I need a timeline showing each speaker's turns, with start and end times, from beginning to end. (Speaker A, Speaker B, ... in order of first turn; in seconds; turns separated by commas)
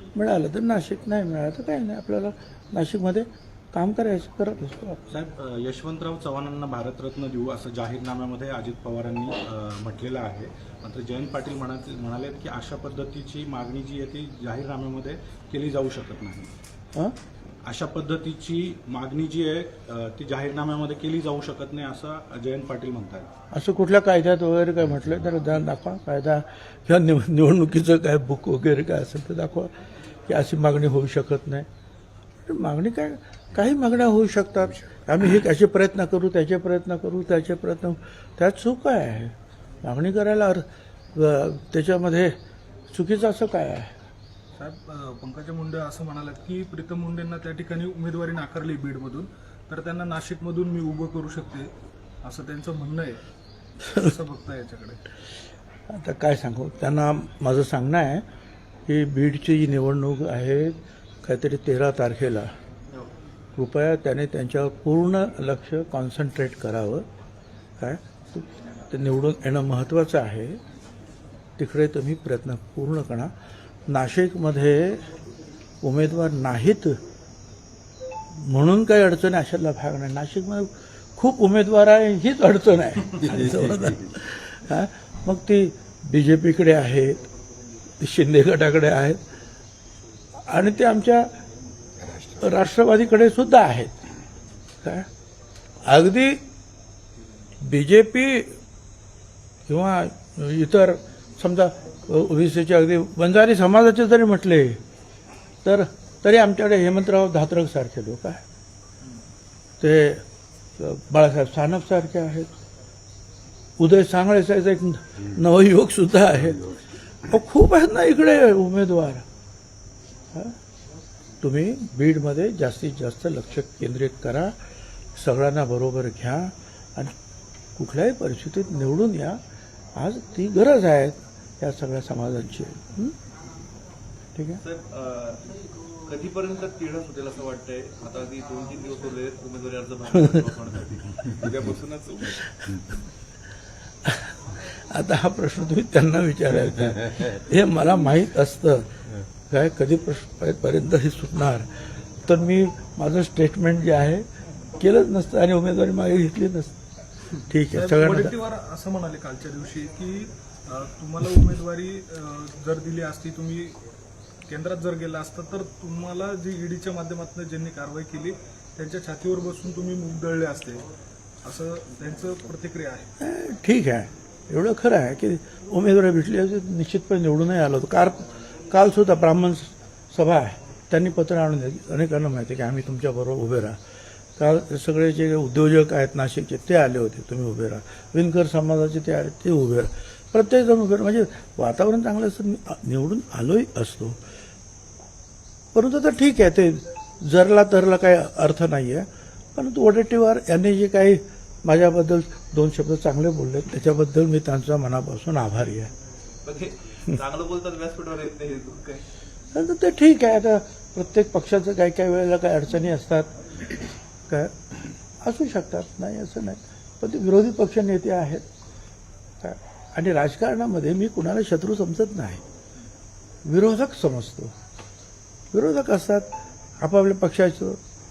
Speaker A: 0.1-5.0, Speaker B: 5.1-16.5, Speaker B: 17.6-23.3, Speaker A: 23.5-29.7, Speaker A: 30.3-31.7, Speaker A: 32.5-42.4, Speaker A: 42.9-44.0, Speaker C: 44.6-51.7, Speaker C: 52.2-53.2, Speaker A: 53.9-54.1, Speaker C: 54.0-55.0, Speaker A: 55.9-58.2, Speaker A: 58.9-62.5, Speaker A: 63.6-67.1, Speaker A: 67.8-70.6, Speaker A: 71.6-73.3, Speaker A: 73.9-75.1, Speaker A: 75.8-77.0, Speaker A: 78.3-87.2, Speaker A: 88.0-89.2, Speaker A: 90.4-91.3, Speaker A: 92.3-93.9, Speaker A: 95.8-96.4, Speaker A: 97.6-98.5, Speaker A: 99.7-104.8, Speaker A: 105.6-108.4, Speaker A: 109.8-110.2, Speaker A: 110.8-112.5, Speaker A: 113.8-119.2, Speaker A: 121.4-124.5, Speaker A: 125.2-127.2, Speaker A: 127.8-129.4, Speaker A: 129.9-133.2, Speaker A: 134.4-134.6, Speaker D: 134.6-135.4, Speaker D: 136.1-142.4, Speaker A: 142.4-142.8, Speaker A: 144.1-151.7, Speaker A: 152.2-154.2, Speaker A: 154.8-156.7, Speaker A: 157.4-158.4, Speaker C: 157.7-163.8, Speaker C: 164.5-170.8, Speaker C: 171.4-173.1, Speaker A: 173.2-183.8, Speaker A: 184.4-194.2, Speaker A: 195.7-205.9, Speaker D: 206.4-209.0, Speaker A: 209.5-213.3, Speaker A: 215.2-218.5, Speaker A: 219.4-222.4, Speaker A: 223.4-224.5, Speaker A: 225.5-226.3, Speaker A: 226.8-227.8